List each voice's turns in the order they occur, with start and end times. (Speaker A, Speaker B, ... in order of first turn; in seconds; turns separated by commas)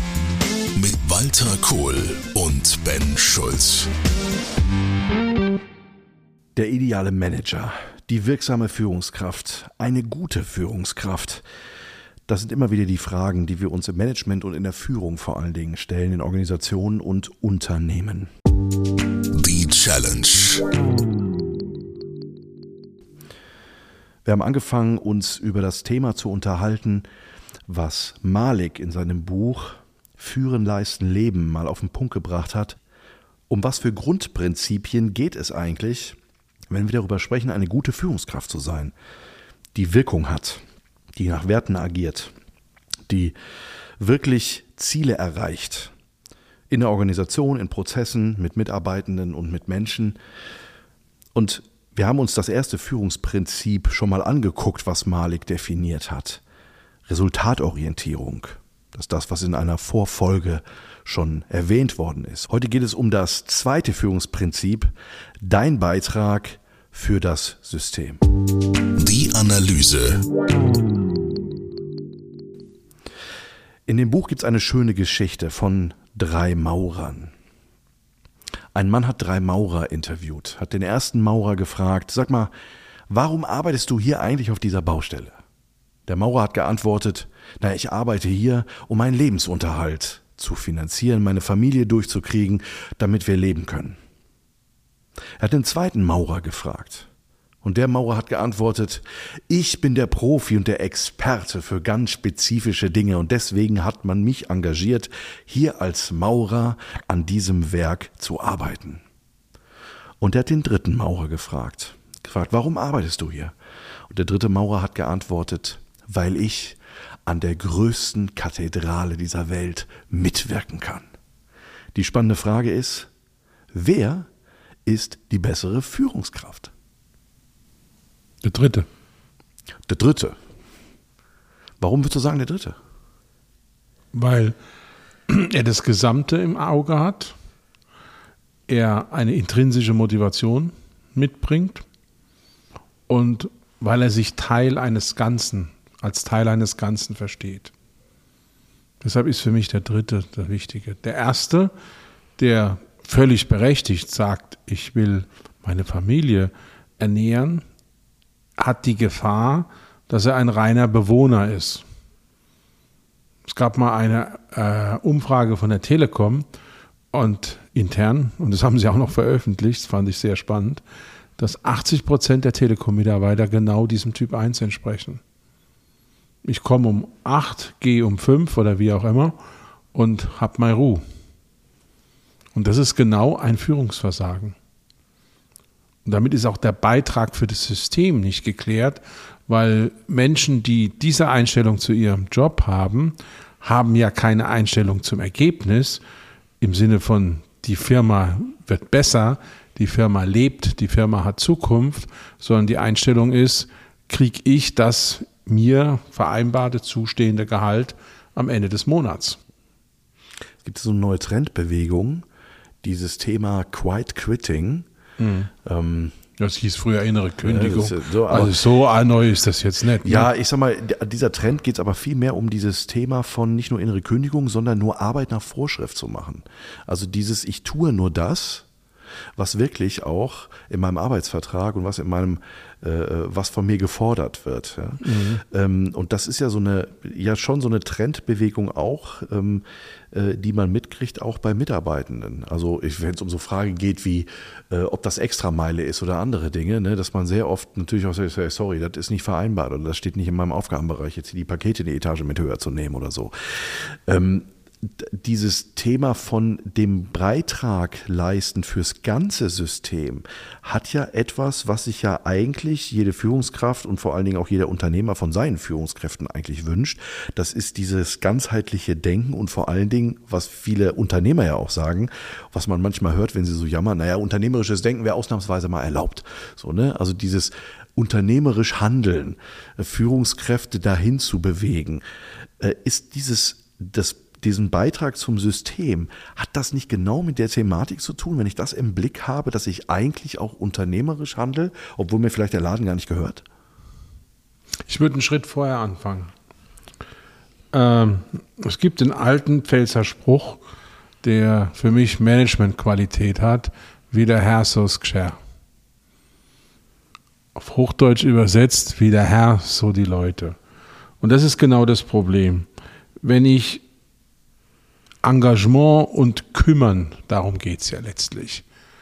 Speaker A: 0.7-3.9, Speaker B: 6.5-11.4, Speaker B: 12.3-18.3, Speaker A: 19.3-20.6, Speaker B: 24.2-27.1, Speaker B: 27.7-32.8, Speaker B: 33.5-36.2, Speaker B: 36.7-38.9, Speaker B: 39.7-40.6, Speaker B: 41.1-42.3, Speaker B: 43.1-43.4, Speaker B: 44.0-45.9, Speaker B: 46.7-50.2, Speaker B: 51.3-56.4, Speaker B: 57.1-68.2, Speaker A: 69.0-70.2, Speaker B: 73.9-77.3, Speaker B: 78.7-82.5, Speaker B: 83.1-85.4, Speaker B: 86.1-94.0, Speaker B: 95.4-97.1, Speaker B: 97.6-109.0, Speaker B: 110.2-113.5, Speaker B: 114.1-121.0, Speaker B: 121.9-123.1, Speaker B: 123.7-124.3, Speaker B: 124.8-126.7, Speaker C: 128.4-128.9, Speaker B: 129.9-130.3, Speaker B: 131.8-132.8, Speaker C: 134.1-134.6, Speaker C: 135.3-137.3, Speaker C: 138.7-141.8, Speaker C: 143.1-147.7, Speaker C: 149.0-151.7, Speaker C: 152.4-157.6, Speaker C: 158.6-161.8, Speaker C: 163.5-166.5, Speaker C: 167.1-170.8, Speaker C: 171.4-175.2, Speaker C: 176.4-179.4, Speaker C: 179.9-181.0, Speaker C: 182.5-184.6, Speaker C: 186.0-196.0, Speaker C: 196.6-209.4, Speaker B: 210.6-212.2, Speaker B: 212.8-214.8, Speaker C: 215.2-215.5, Speaker B: 215.6-216.2, Speaker C: 216.4-220.3, Speaker B: 217.4-218.6, Speaker B: 220.0-228.7, Speaker B: 229.4-282.0, Speaker C: 235.0-235.4, Speaker B: 282.6-293.4, Speaker C: 294.9-296.3, Speaker C: 297.7-300.6, Speaker C: 301.2-305.4, Speaker C: 307.5-310.6, Speaker C: 311.2-312.7, Speaker C: 313.2-313.8, Speaker C: 315.2-318.6